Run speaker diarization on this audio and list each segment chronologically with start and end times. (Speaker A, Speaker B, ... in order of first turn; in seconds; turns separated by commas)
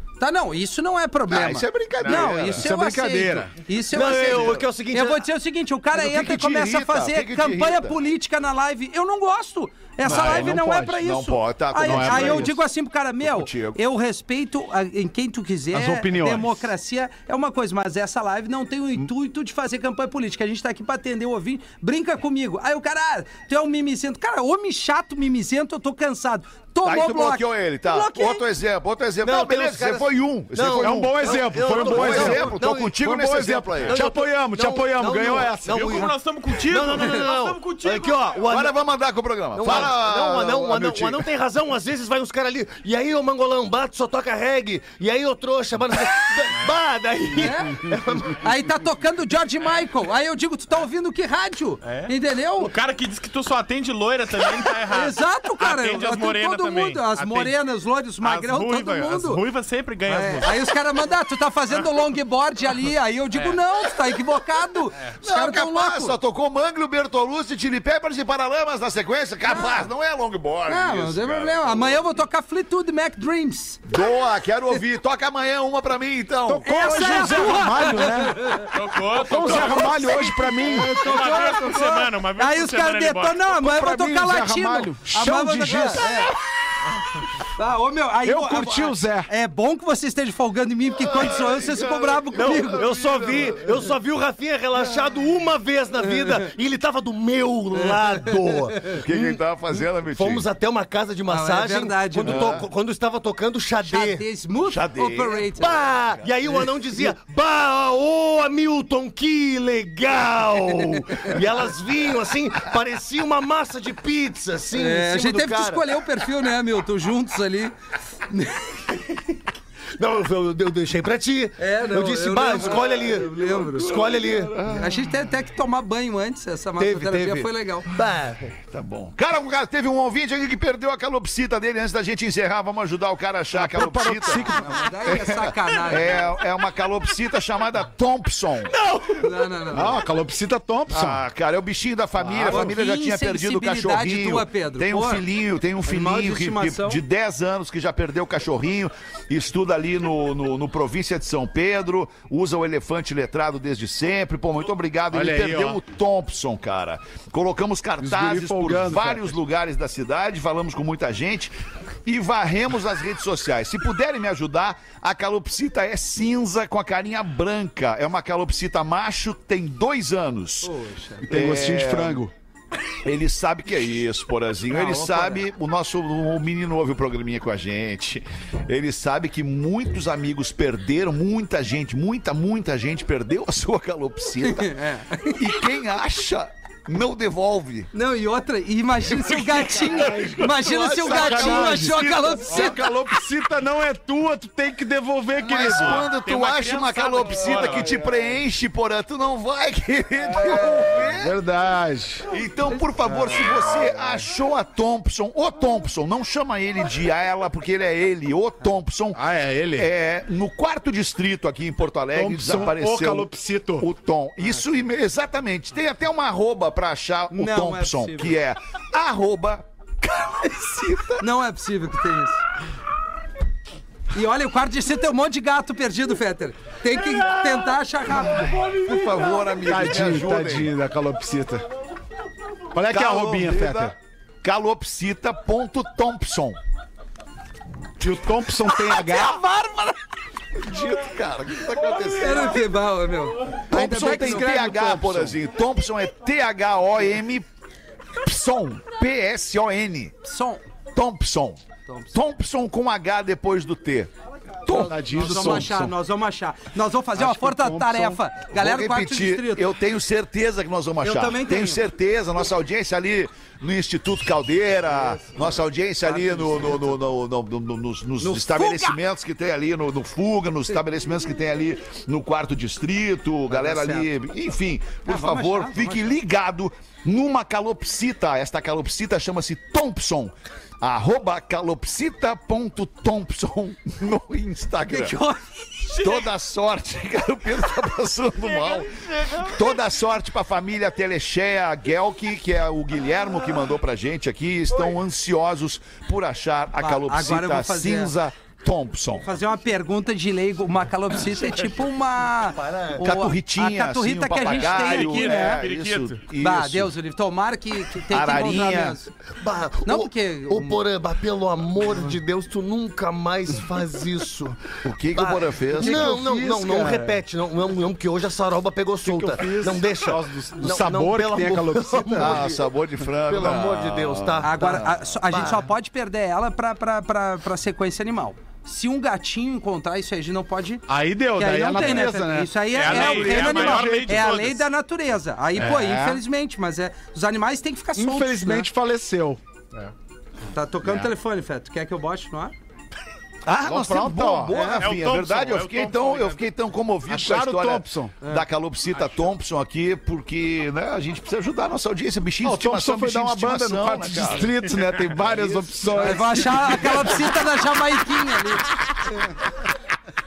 Speaker A: 0.2-28.4, Speaker B: 1.3-2.7, Speaker C: 2.0-2.5, Speaker D: 2.5-3.5, Speaker E: 3.9-5.2, Speaker B: 4.2-4.6, Speaker B: 5.9-8.0, Speaker B: 10.0-12.6, Speaker D: 10.1-11.0, Speaker D: 11.8-12.5, Speaker B: 13.2-13.8, Speaker D: 15.7-16.7, Speaker B: 26.8-34.0, Speaker E: 29.2-33.0, Speaker D: 30.8-36.1, Speaker E: 33.9-38.8, Speaker C: 35.6-38.4, Speaker B: 38.5-41.3, Speaker E: 39.5-48.4, Speaker A: 47.3-52.7, Speaker C: 51.8-57.5, Speaker A: 54.9-59.4, Speaker C: 58.2-60.7, Speaker A: 60.1-66.2, Speaker C: 63.3-63.6, Speaker B: 65.2-72.0, Speaker A: 70.7-73.8, Speaker B: 73.9-77.7, Speaker D: 76.5-81.4, Speaker A: 76.6-78.7, Speaker C: 78.7-80.3, Speaker A: 80.6-86.3, Speaker C: 80.9-83.5, Speaker D: 83.6-86.2, Speaker A: 87.6-92.9, Speaker D: 88.2-89.3, Speaker B: 91.0-93.9, Speaker E: 92.4-99.4, Speaker B: 98.9-100.5, Speaker E: 100.1-104.2, Speaker A: 101.3-102.6, Speaker B: 102.3-102.7, Speaker A: 103.8-105.8, Speaker B: 104.6-105.7, Speaker E: 105.6-115.8, Speaker A: 114.7-117.8, Speaker A: 118.3-118.8, Speaker E: 120.0-124.8, Speaker A: 121.6-124.0, Speaker B: 123.4-125.0, Speaker A: 124.6-127.9, Speaker E: 126.8-128.6, Speaker B: 128.7-134.5, Speaker D: 133.5-134.9, Speaker A: 134.5-136.2, Speaker B: 135.1-138.8, Speaker A: 139.1-140.0, Speaker D: 139.7-141.2, Speaker B: 140.9-161.6, Speaker D: 142.2-142.7, Speaker A: 142.4-145.2, Speaker A: 145.9-147.0, Speaker D: 155.1-155.8, Speaker D: 158.0-159.4, Speaker B: 162.1-170.7, Speaker A: 170.6-171.3, Speaker D: 171.3-172.3, Speaker B: 171.3-172.2, Speaker B: 173.0-184.7, Speaker A: 174.7-175.4, Speaker A: 184.4-185.5, Speaker B: 185.4-187.9, Speaker A: 187.9-192.8, Speaker B: 189.1-192.8, Speaker D: 189.8-196.1, Speaker B: 195.4-201.3, Speaker C: 195.5-198.0, Speaker D: 200.3-202.3, Speaker B: 202.3-209.2, Speaker D: 209.1-209.9, Speaker B: 209.8-221.2, Speaker D: 212.1-213.9, Speaker A: 217.3-218.3, Speaker A: 221.2-222.4, Speaker A: 224.1-228.6, Speaker B: 228.6-230.7, Speaker D: 229.0-231.7, Speaker D: 232.7-233.9, Speaker B: 232.9-236.6, Speaker D: 238.0-239.4, Speaker A: 238.9-240.0, Speaker B: 240.6-242.6, Speaker A: 242.2-244.7, Speaker D: 243.7-245.4, Speaker B: 243.7-247.4, Speaker B: 248.2-250.2, Speaker A: 250.2-250.6, Speaker B: 250.9-251.6, Speaker A: 251.9-252.1, Speaker B: 252.1-254.1, Speaker B: 254.7-255.7, Speaker D: 254.7-255.9, Speaker A: 254.7-259.7, Speaker D: 257.1-258.2, Speaker B: 258.5-285.2, Speaker A: 261.0-261.8, Speaker A: 266.0-267.0, Speaker A: 268.2-269.0, Speaker A: 273.5-274.1, Speaker A: 275.1-276.2, Speaker A: 284.9-285.4, Speaker C: 285.9-286.3, Speaker B: 286.0-299.3, Speaker C: 288.4-289.8, Speaker A: 296.8-298.1, Speaker A: 299.2-305.6, Speaker E: 302.6-303.0, Speaker B: 303.0-306.9, Speaker C: 304.5-306.2, Speaker A: 306.4-309.1, Speaker B: 308.1-309.0, Speaker E: 309.4-322.6, Speaker A: 309.9-310.8, Speaker B: 314.8-316.1, Speaker D: 315.8-317.2, Speaker D: 319.0-322.5, Speaker B: 322.2-324.9, Speaker E: 323.3-325.6, Speaker D: 323.3-324.3, Speaker A: 324.4-338.7, Speaker D: 330.9-334.3, Speaker C: 332.7-334.6, Speaker D: 335.6-336.2, Speaker D: 338.0-339.9, Speaker A: 340.5-342.5, Speaker D: 340.8-341.1, Speaker B: 343.4-355.6, Speaker D: 343.6-344.9, Speaker A: 344.5-344.9, Speaker C: 344.8-346.4, Speaker D: 347.1-348.3, Speaker C: 349.0-349.3, Speaker D: 352.4-357.2, Speaker A: 356.0-358.7